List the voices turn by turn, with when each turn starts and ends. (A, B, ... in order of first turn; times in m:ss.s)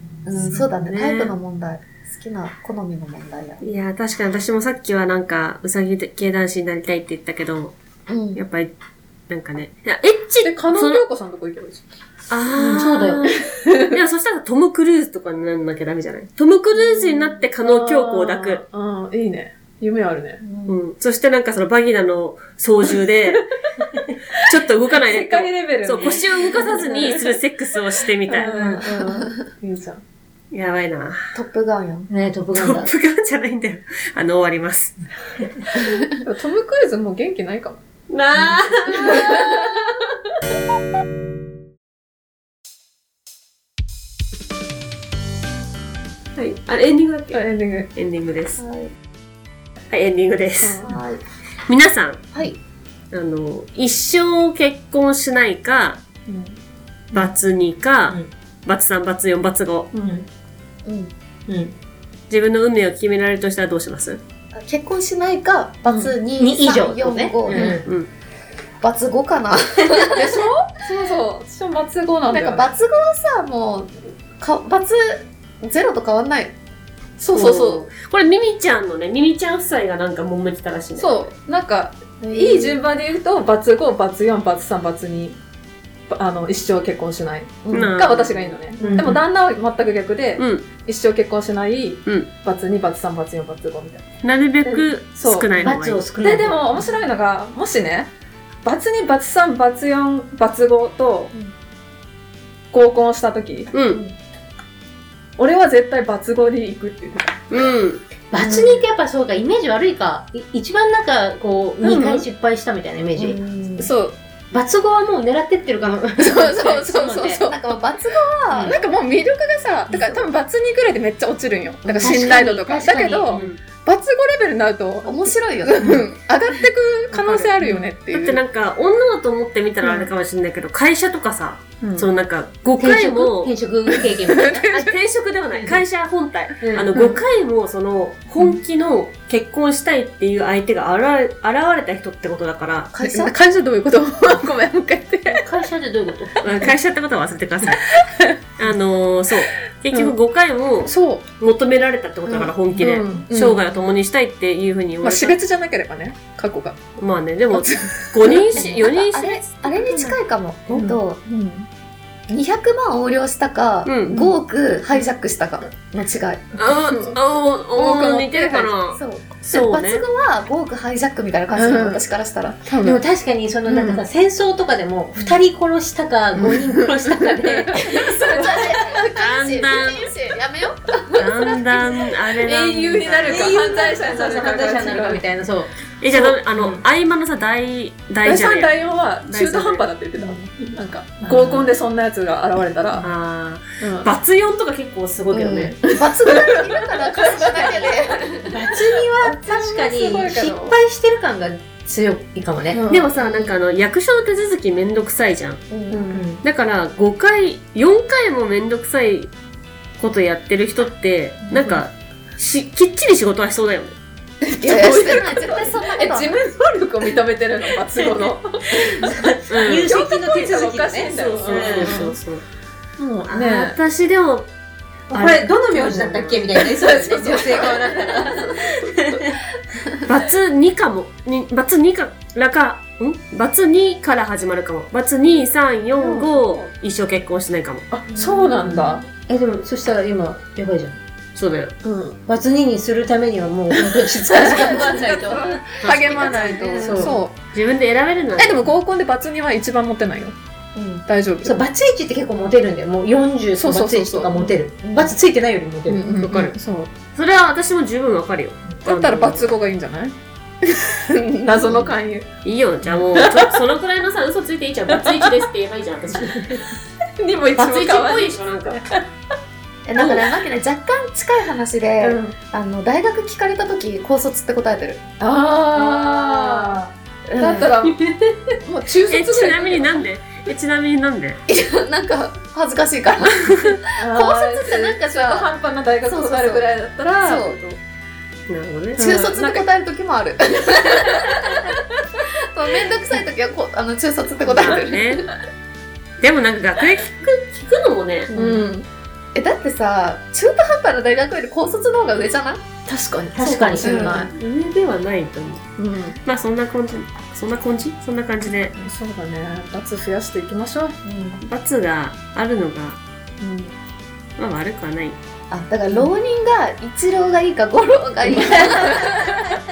0:00.2-0:03.6 A
0:00.8-0:01.3 B
0:03.6-0:07.8 B
0:08.1-0:08.4 A
0:08.3-0:08.7 B
0:09.3-0:11.0 B
0:10.4-0:11.8 C
0:12.3-0:18.6 B
0:12.6-0:13.2 D
0:13.4-0:13.9 C
0:17.6-0:20.4 C
0:20.4-0:20.8 A
0:20.6-0:23.5 B
0:23.3-0:27.4 C
0:24.3-0:28.7 B
0:28.0-0:30.0 C
0:28.5-0:29.3 A
0:28.5-0:28.8 D
0:30.5-0:31.3 B
0:31.3-0:32.1 A
0:32.1-0:32.9 D
0:32.5-0:35.0 B
0:35.8-0:36.2 A
0:36.2-0:37.8 C
0:38.1-0:39.8 B
0:38.9-0:39.8 C
0:46.4-0:48.6 B
0:47.3-0:47.9 C
0:48.6-0:48.9 A
0:49.9-0:50.9 B
0:50.6-0:50.9 C
0:50.8-0:51.2 A
0:51.7-0:52.4 B
0:53.1-0:56.0 B
0:56.3-0:56.6 C
0:57.1-0:59.9 B
0:59.9-1:00.2 D
1:00.8-1:01.1 A
1:01.5-1:01.7 D
1:02.3-1:04.2 B
1:04.5-1:07.8 A
1:05.8-1:06.1 C
1:06.4-1:07.8 D
1:07.5-1:08.1 B
1:08.8-1:10.4 A
1:10.1-1:12.7 C
1:12.3-1:16.5 A
1:17.2-1:17.9 C
1:17.3-1:21.3 B
1:21.0-1:25.4 C
1:22.2-1:22.8 A
1:26.1-1:34.1 C
1:27.6-1:28.0 A
1:27.7-1:28.6 B
1:28.8-1:29.2 D
1:30.4-1:30.7 B
1:34.2-1:36.0 B
1:34.6-1:38.1 C
1:35.6-1:36.8 D
1:38.6-1:41.3 C
1:42.7-1:43.7 C
1:43.7-1:44.0 B
1:43.9-1:44.1 A
1:45.4-1:47.4 C
1:47.5-1:48.1 B
1:48.3-1:53.4 D
1:48.4-1:48.8 A
1:51.8-1:52.2 B
1:53.2-1:53.9 A
1:53.8-1:54.2 C
1:54.5-1:57.4 D
1:56.2-1:57.6 C
1:57.4-1:58.8 A
1:58.6-2:08.4 C
2:01.8-2:02.4 A
2:02.0-2:03.5 D
2:03.3-2:03.6 B
2:05.0-2:06.0 A
2:07.1-2:07.6 B
2:07.6-2:07.9 D
2:08.1-2:13.5 B
2:11.8-2:12.1 C
2:12.8-2:14.6 D
2:14.2-2:14.9 C
2:14.4-2:22.9 B
2:16.6-2:16.9 D
2:16.9-2:17.2 C
2:22.9-2:23.4 A
2:23.0-2:25.4 C
2:25.2-2:26.5 D
2:26.4-2:27.9 B
2:27.6-2:28.4 C
2:28.6-2:35.4 B
2:30.8-2:31.2 C
2:32.3-2:33.6 C
2:35.0-2:36.8 C
2:37.0-2:40.1 B
2:37.5-2:38.8 C
2:38.5-2:41.2 A
2:40.7-2:41.7 C
2:42.3-2:46.5 A
2:43.8-2:44.3 B
2:46.6-2:50.0 B
2:46.7-2:47.2 C
2:47.8-2:48.7 C
2:48.9-2:52.6 A
2:51.5-2:52.0 C
2:52.6-2:53.0 C
2:52.8-2:57.9 D
2:53.7-2:54.0 C
2:56.4-2:58.9 C
2:57.8-3:01.6 A
2:59.1-3:00.1 B
3:01.1-3:03.6 B
3:02.4-3:05.2 C
3:03.2-3:05.7 D
3:06.0-3:09.8 B
3:06.1-3:06.4 C
3:08.2-3:13.1 C
3:11.2-3:11.7 D
3:13.0-3:16.0 B
3:13.8-3:14.1 C
3:15.3-3:18.6 A
3:15.9-3:20.8 C
3:18.5-3:22.8 D
3:22.7-3:23.1 C
3:22.9-3:25.7 B
3:25.7-3:26.1 A
3:25.9-3:26.2 C
3:26.1-3:26.4 D
3:26.4-3:29.3 B
3:30.0-3:33.9 B
3:34.4-3:39.3 C
3:34.6-3:36.4 A
3:38.0-3:42.0 D
3:39.5-3:40.0 B
3:39.8-3:42.1 C
3:41.0-3:42.4 B
3:43.0-3:43.8 C
3:43.3-3:44.5 B
3:45.1-3:46.4 B
3:45.1-3:49.3 D
3:46.8-3:48.5 C
3:50.0-3:57.9 B
3:56.0-3:56.7 C
3:57.9-3:59.0 C
3:58.1-3:58.9 A
3:58.6-4:01.0 D
4:01.3-4:01.7 B
4:01.8-4:02.2 C
4:02.3-4:05.6 D
4:03.8-4:07.4 C
4:05.8-4:07.2 A
4:05.8-4:06.4 B
4:06.8-4:07.2 D
4:07.5-4:08.7 B
4:08.4-4:10.3 C
4:10.8-4:11.0 A
4:11.1-4:11.6 C
4:11.4-4:16.5 D
4:13.6-4:14.5 C
4:14.8-4:15.1 A
4:15.9-4:16.9 C
4:17.1-4:19.5 B
4:18.8-4:22.3 C
4:21.5-4:22.0 A
4:22.4-4:26.6 B
4:23.1-4:23.6 C
4:24.9-4:25.5 C
4:27.2-4:29.0 C
4:27.5-4:28.8 B
4:29.8-4:35.0 A
4:30.0-4:30.3 B
4:32.0-4:32.3 C
4:35.2-4:36.8 C
4:35.7-4:36.9 D
4:37.3-4:37.7 A
4:37.4-4:38.0 C
4:38.6-4:39.8 C
4:39.1-4:41.4 B
4:41.5-4:45.5 A
4:43.9-4:47.8 C
4:46.0-4:46.6 A
4:47.2-4:47.6 A
4:48.5-4:49.1 B
4:49.0-4:49.7 C
4:49.0-4:51.7 A
4:50.7-4:51.8 C
4:52.4-4:55.2 A
4:54.4-4:55.3 B
4:56.2-4:58.3 B
4:58.3-4:58.6 A
4:58.3-4:58.9 C
4:59.3-5:02.6 A
5:02.8-5:04.3 C
5:03.4-5:04.3 D
5:03.8-5:04.3 A
5:04.3-5:05.7 B
5:05.8-5:06.2 C
5:06.2-5:08.8 B
5:08.8-5:11.0 C
5:11.0-5:11.4 A
5:11.4-5:13.0 B
5:13.4-5:13.7 C
5:14.4-5:15.2 B
5:15.5-5:19.3 A
5:18.4-5:19.4 C